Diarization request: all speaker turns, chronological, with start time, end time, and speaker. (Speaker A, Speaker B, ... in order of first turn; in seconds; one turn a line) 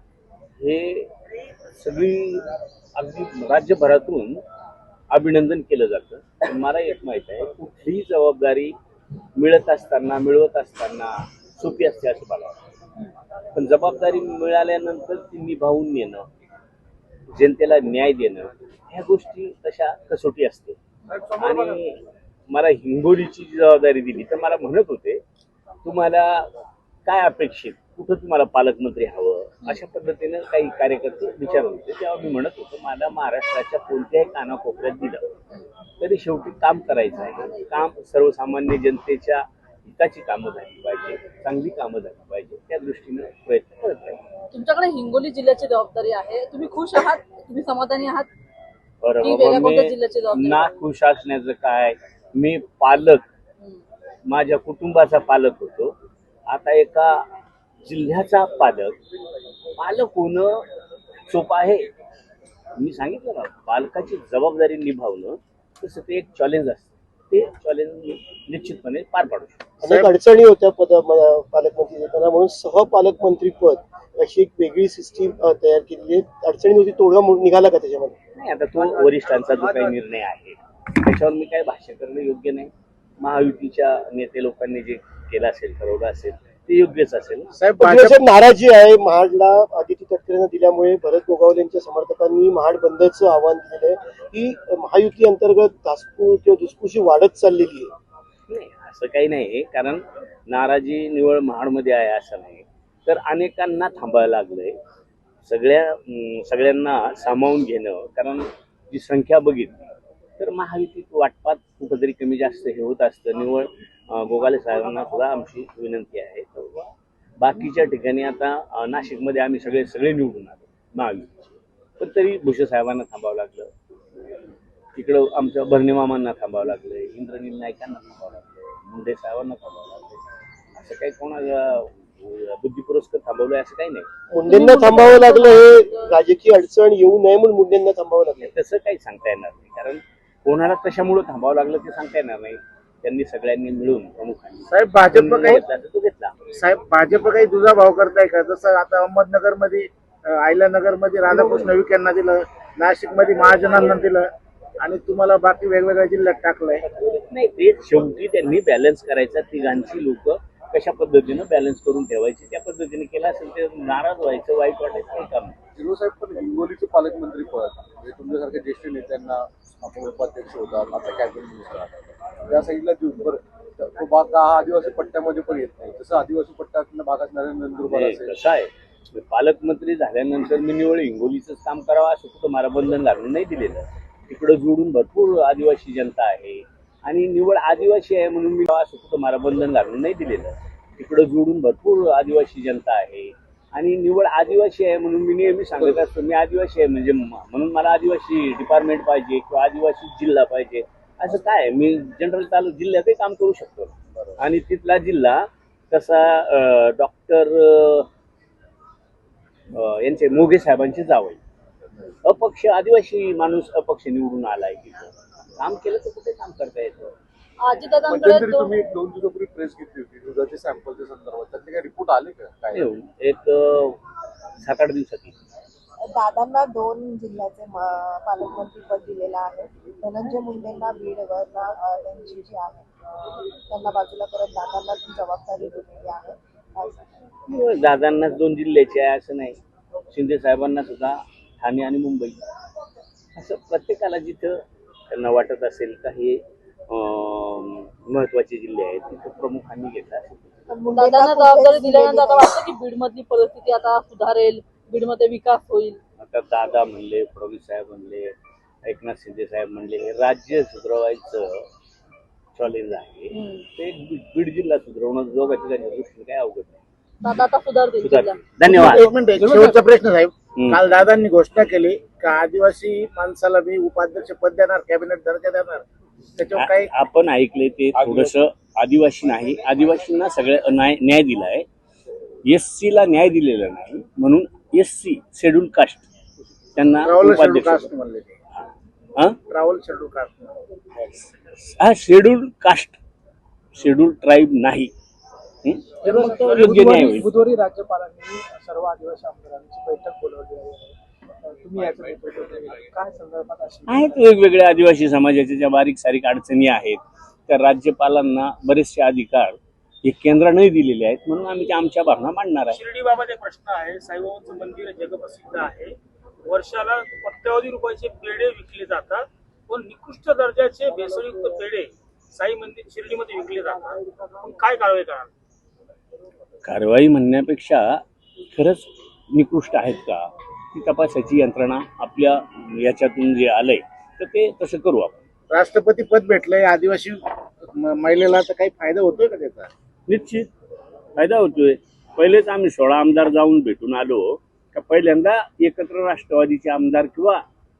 Speaker A: 0.6-1.1
Speaker A: 1.8-2.4
Speaker A: 3.0-4.4
Speaker A: 5.1-8.7
Speaker A: 9.4-12.6
Speaker A: 13.5-16.3
Speaker A: 17.3-20.8
Speaker A: 21.3-25.2
Speaker A: 25.8-26.5
Speaker A: 27.1-35.2
Speaker A: 36.0-44.2
Speaker B: 44.5-48.3
Speaker A: 49.0-53.2
Speaker B: 49.2-50.7
Speaker A: 54.2-56.0
Speaker A: 56.5-57.3
Speaker A: 57.8-59.0
Speaker A: 59.8-60.6
Speaker A: 61.3-61.9
Speaker A: 62.8-69.6
Speaker C: 69.8-78.1
Speaker D: 69.8-70.1
Speaker A: 78.3-87.5
Speaker E: 78.8-80.0
Speaker D: 87.5-88.2
Speaker C: 87.8-97.9
Speaker A: 98.5-104.8
Speaker A: 105.4-121.5
Speaker A: 122.0-123.7
Speaker A: 125.0-130.2
Speaker A: 130.8-134.1
Speaker C: 134.3-138.5
Speaker B: 134.5-136.1
Speaker A: 138.4-146.3
Speaker D: 144.7-145.6
Speaker D: 146.5-154.3
Speaker D: 154.8-156.8
Speaker A: 157.3-165.6
Speaker E: 165.8-178.4
Speaker A: 177.9-208.1
Speaker A: 209.7-211.4
Speaker A: 212.2-217.1
Speaker B: 217.6-218.7
Speaker E: 218.1-222.9
Speaker A: 222.7-224.0
Speaker A: 224.6-225.3
Speaker F: 226.1-237.2
Speaker A: 237.5-239.6
Speaker A: 240.1-242.4
Speaker A: 243.3-250.6
Speaker F: 250.7-252.6
Speaker B: 250.9-256.0
Speaker A: 256.2-261.7
Speaker A: 262.6-266.8
Speaker B: 263.3-263.6
Speaker B: 267.2-268.4
Speaker A: 268.0-269.1
Speaker D: 268.6-275.8
Speaker G: 269.3-269.9
Speaker A: 270.6-270.8
Speaker D: 276.4-276.9
Speaker A: 276.5-281.7
Speaker A: 282.4-286.0
Speaker A: 286.8-287.9
Speaker D: 287.0-288.3
Speaker D: 289.5-290.6
Speaker A: 291.0-293.0
Speaker A: 293.7-294.9
Speaker A: 295.6-297.3
Speaker G: 296.0-304.2
Speaker D: 296.4-296.7
Speaker A: 303.9-312.8
Speaker H: 312.7-325.3
Speaker A: 326.6-335.1
Speaker D: 335.5-339.7
Speaker A: 340.1-340.5
Speaker A: 341.1-347.4